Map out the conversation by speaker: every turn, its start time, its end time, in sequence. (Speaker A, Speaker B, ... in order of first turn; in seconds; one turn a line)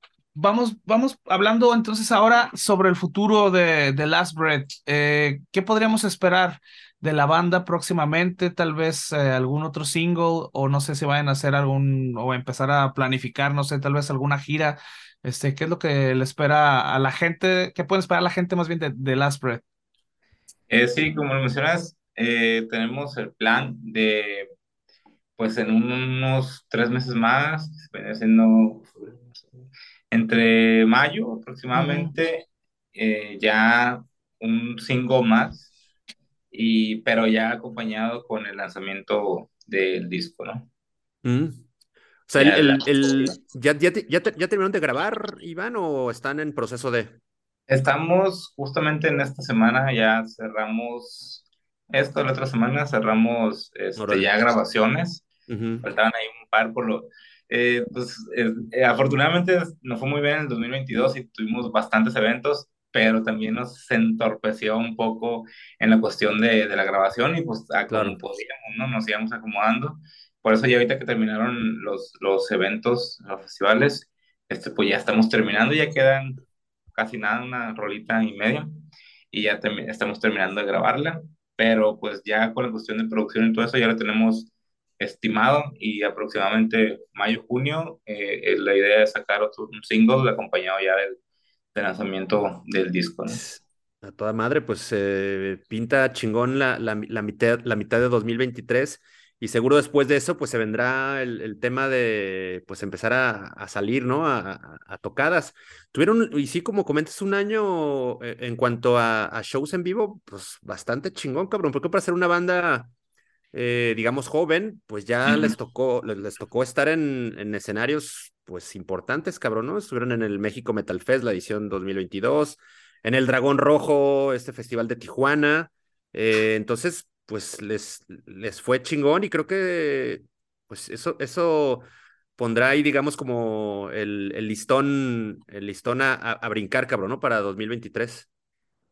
Speaker A: 0.3-19.6
Speaker B: 20.7-24.5
Speaker B: 25.4-29.1
Speaker B: 30.1-35.6
Speaker A: 31.7-32.1
Speaker B: 36.5-40.7
Speaker C: 41.2-41.6
Speaker C: 42.3-47.2
Speaker B: 42.4-43.3
Speaker B: 47.7-55.3
Speaker C: 54.0-54.3
Speaker C: 55.5-55.9
Speaker B: 55.8-76.4
Speaker C: 67.9-68.2
Speaker B: 76.9-78.7
Speaker B: 79.3-91.2
Speaker B: 91.7-93.4
Speaker C: 93.3-112.9
Speaker C: 113.5-138.3